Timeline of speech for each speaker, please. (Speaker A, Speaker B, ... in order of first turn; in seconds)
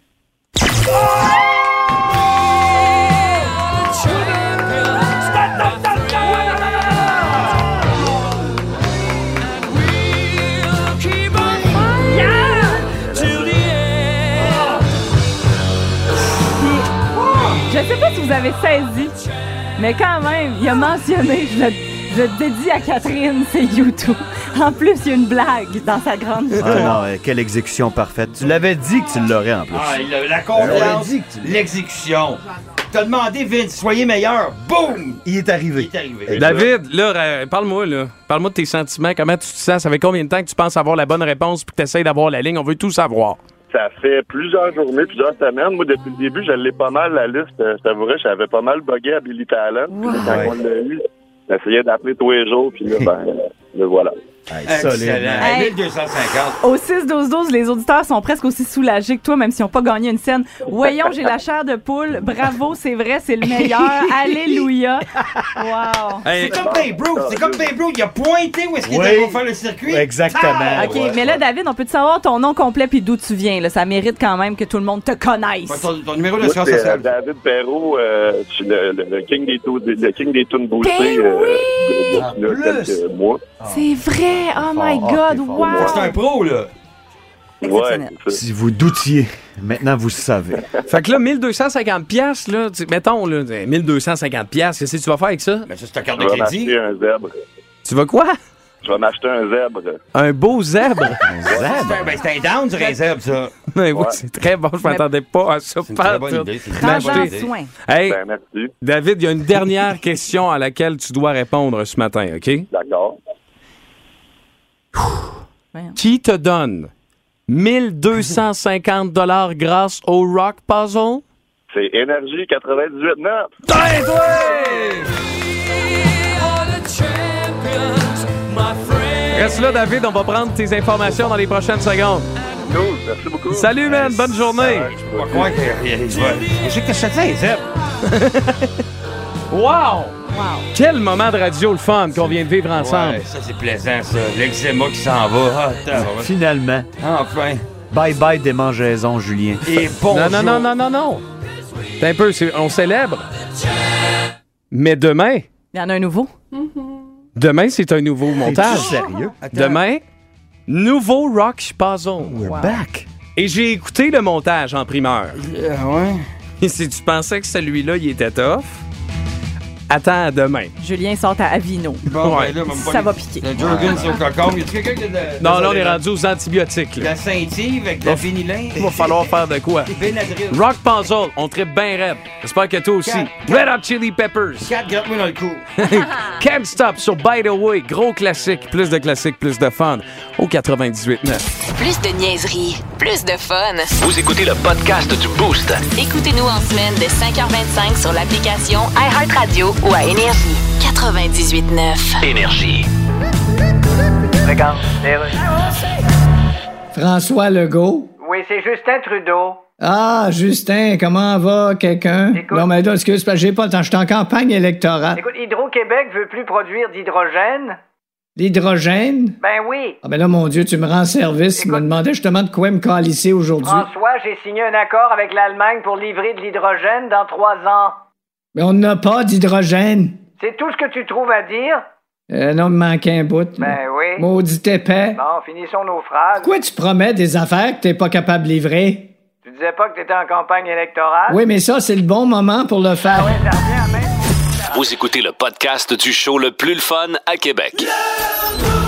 Speaker A: 11.9-12.9, 16.6-19.1, 19.8-27.0, 49.9-50.4, 55.4-55.8, 56.6-66.3, 70.7-75.9, 80.8-81.6, 83.6-86.2, 87.6-88.1, 106.7-107.7, 140.3-140.7, 155.7-156.3, 162.4-162.8, 170.8-172.0, 172.7-173.4, 185.9-186.2
Speaker B: 12.9-13.7, 36.3-36.7, 43.7-54.1, 66.4-67.7, 76.4-83.4, 85.7-86.1, 87.6-88.4, 96.2-97.3, 98.8-100.0, 101.5-101.8, 103.9-104.2, 108.0-108.7, 112.7-113.2, 121.7-123.5, 132.6-133.9, 134.6-135.5
Speaker C: 14.3-14.7, 29.7-36.6, 54.6-56.6, 66.2-71.1, 75.7-77.1, 82.6-82.9, 85.8-86.7, 95.7-96.8, 101.5-103.5, 105.8-107.5, 133.8-137.7, 142.7-146.3, 147.0-147.7, 149.6-150.7, 158.5-159.8, 165.3-166.2, 172.0-176.0, 176.9-179.3, 179.9-180.6, 183.0-183.7, 184.6-185.7
Speaker D: 26.6-30.0, 30.5-31.6, 35.2-35.9, 50.2-50.6, 54.5-55.6, 68.8-71.4, 82.3-82.7, 83.6-83.9, 84.5-85.9, 88.3-90.6, 101.2-102.2, 145.9-146.9, 147.9-149.8, 158.4-159.4, 162.2-163.1, 173.6-174.0
Speaker E: 36.3-43.4, 63.6-64.3, 90.9-95.7, 97.8-98.4, 100.1-101.2, 103.7-107.3, 107.9-108.2, 108.8-112.7, 116.0-116.9, 117.5-121.2, 123.6-125.1, 129.2-132.3, 133.5-134.9, 138.0-138.8, 139.5-140.2, 140.7-143.2, 150.1-151.2, 152.0-153.2, 154.7-155.5, 157.3-159.0, 159.5-160.0, 160.7-162.4, 163.3-165.4, 166.6-168.8, 169.9-170.7, 172.2-172.6, 175.4-177.1, 178.0-179.9, 180.5-184.7, 185.8-191.4
Speaker F: 191.7-193.9, 195.9-202.2
Speaker G: 193.9-195.9, 202.2-202.9, 244.7-247.9
Speaker H: 204.4-205.6, 208.2-209.6, 212.3-212.7, 215.2-217.8, 219.4-220.0, 221.6-221.9, 223.6-227.9, 230.3-231.8, 233.6-234.2, 235.2-236.5, 239.4-241.4, 243.1-244.8
Speaker I: 206.9-208.1, 209.8-215.2, 218.4-219.4, 220.0-223.8, 228.6-230.2, 232.3-235.2, 236.4-239.1, 241.3-243.3